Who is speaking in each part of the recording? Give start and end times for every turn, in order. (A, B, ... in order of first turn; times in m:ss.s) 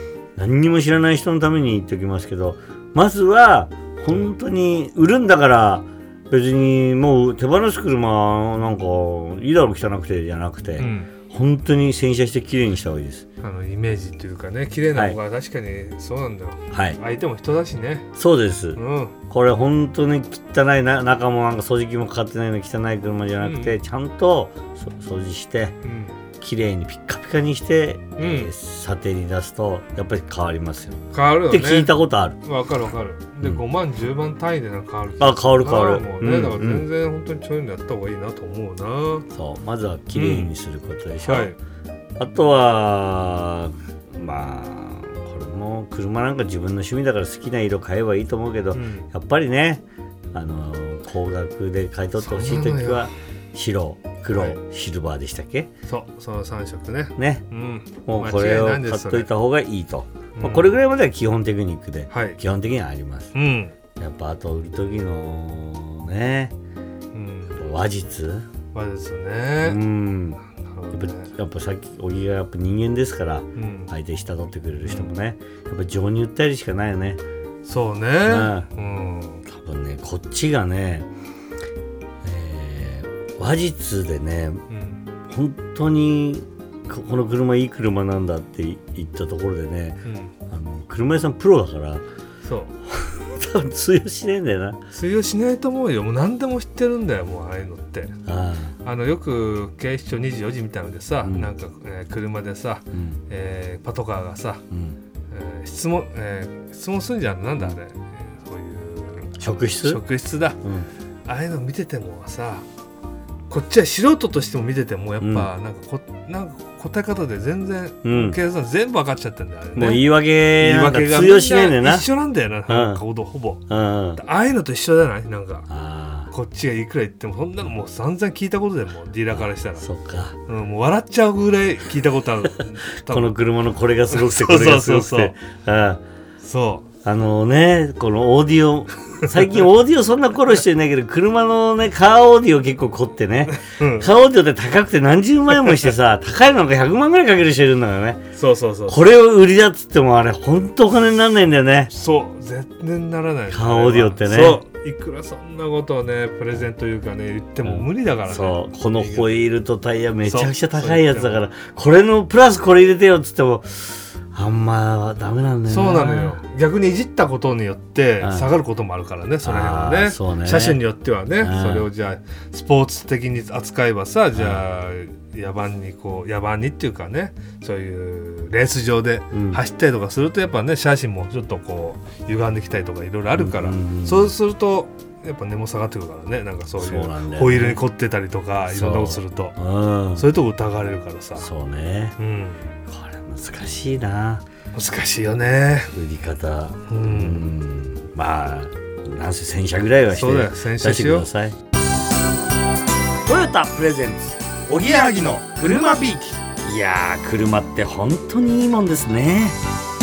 0:00.4-0:13.2 A
0:04.1-0:04.3 B
0:10.8-0:11.1 B
0:13.4-0:18.1 B
0:14.9-0:15.2 A
0:16.7-0:17.0 A
0:18.2-0:25.8 A
0:18.8-0:19.2 B
0:23.4-0:23.8 B
0:25.8-0:26.1 B
0:26.4-0:32.4 A
0:28.2-0:28.5 B
0:31.1-0:31.9 B
0:32.4-0:39.3 B
0:35.2-0:36.9 A
0:39.3-0:41.6 A
0:40.1-0:40.5 B
0:41.2-0:41.6 B
0:42.2-0:55.7 A
0:48.7-0:49.1 B
0:52.2-0:53.1 B
0:54.3-0:54.6 B
0:55.9-0:59.3 B
0:57.2-0:57.5 A
0:58.0-1:03.3 A
1:00.4-1:00.7 B
1:02.1-1:02.4 B
1:03.3-1:03.8 B
1:04.0-1:06.6 A
1:07.1-1:07.6 B
1:07.6-1:08.5 A
1:08.7-1:09.8 B
1:09.6-1:10.4 A
1:10.6-1:11.3 B
1:10.9-1:17.2 A
1:13.6-1:13.9 B
1:14.8-1:15.1 B
1:17.6-1:19.4 B
1:18.2-1:18.7 A
1:19.5-1:21.1 A
1:22.2-1:24.6 A
1:24.7-1:25.0 B
1:25.3-1:32.0 A
1:30.0-1:30.3 B
1:32.4-1:32.7 B
1:32.9-1:34.8 A
1:34.9-1:38.2 B
1:38.3-1:38.8 A
1:38.8-1:44.6 B
1:41.2-1:41.5 A
1:42.9-1:43.2 A
1:44.7-1:45.0 A
1:45.3-1:50.6 B
1:49.4-1:50.0 A
1:50.6-1:50.9 A
1:51.3-1:52.7 B
1:53.5-2:05.7 B
1:55.2-1:55.5 A
1:58.0-1:58.4 A
1:59.8-2:02.1 A
2:02.7-2:03.0 A
2:03.7-2:04.2 A
2:05.7-2:06.3 A
2:06.3-2:09.9 B
2:09.3-2:10.4 A
2:10.5-2:13.4 B
2:13.1-2:16.0 A
2:14.1-2:15.4 B
2:16.4-2:16.9 B
2:17.0-2:28.2 A
2:23.5-2:24.1 B
2:28.4-2:29.1 B
2:28.9-2:31.9 A
2:31.9-2:39.4 B
2:33.5-2:34.6 A
2:37.6-2:46.4 A
2:40.2-2:41.5 B
2:45.7-3:09.6 B
2:48.2-2:48.5 A
2:49.4-2:50.8 A
2:51.4-2:51.9 A
2:54.4-2:54.6 A
2:59.3-2:59.6 A
3:03.3-3:04.3 A
3:06.8-3:07.8 A
3:08.7-3:10.3 A
3:10.1-3:11.5 B
3:11.4-3:12.2 A
3:12.2-3:12.6 B
3:12.9-3:14.4 A
3:14.7-3:15.9 B
3:15.9-3:21.6 A
3:16.9-3:17.5 B
3:20.1-3:21.3 B
3:23.3-3:29.6 A